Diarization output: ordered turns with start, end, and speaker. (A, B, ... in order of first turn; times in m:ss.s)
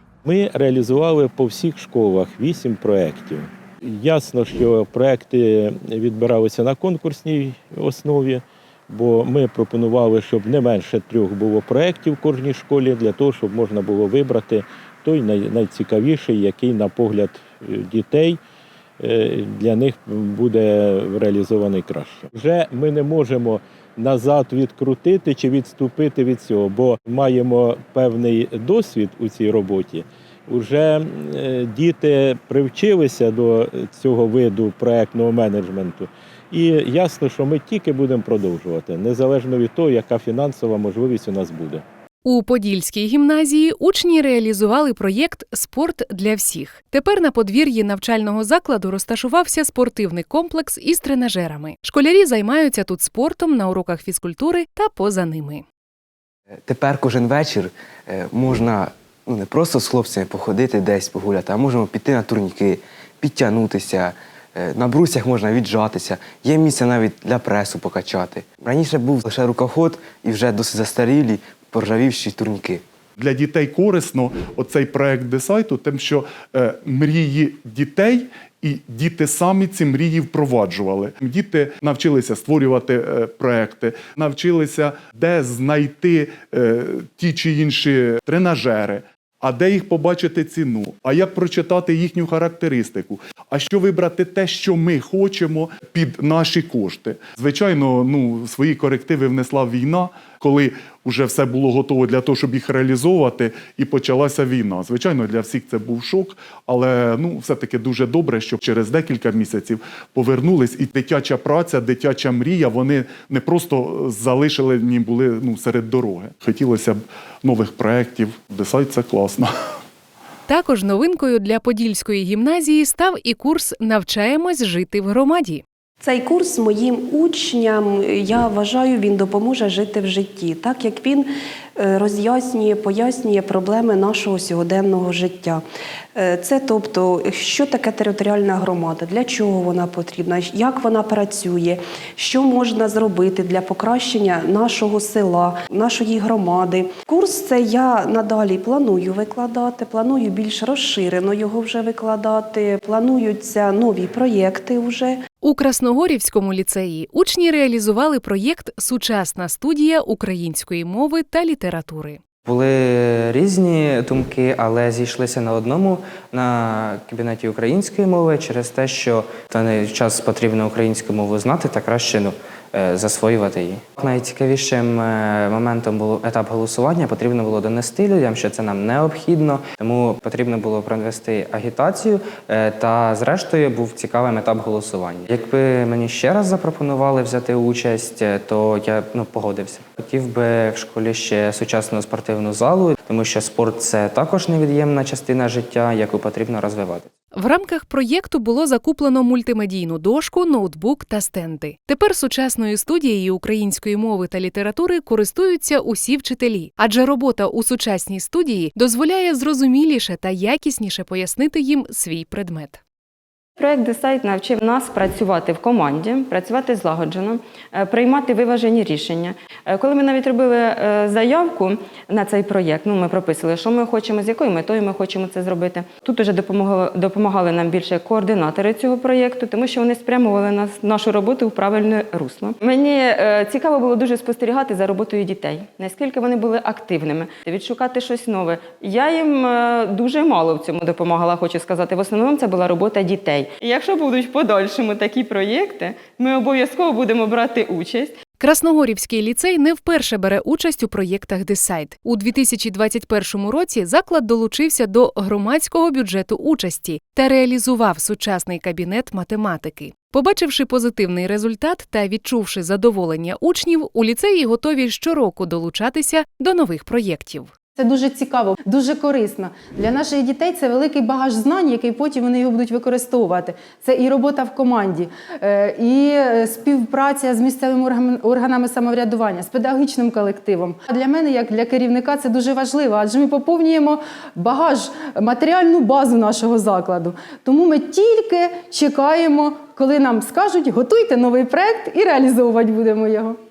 0:00.2-0:18.4 A
0:19.0-0:41.8 A
0:42.2-0:55.6 B
0:56.7-1:12.8 C
1:13.2-1:59.5 D
2:00.5-2:05.6 B
2:06.0-2:15.6 E
2:16.2-2:35.2 E
2:35.4-2:42.2 B
2:42.4-3:17.1 F
3:17.3-3:32.8 B
3:33.6-4:08.2 G
4:08.4-4:27.5 B
4:27.8-4:53.4 H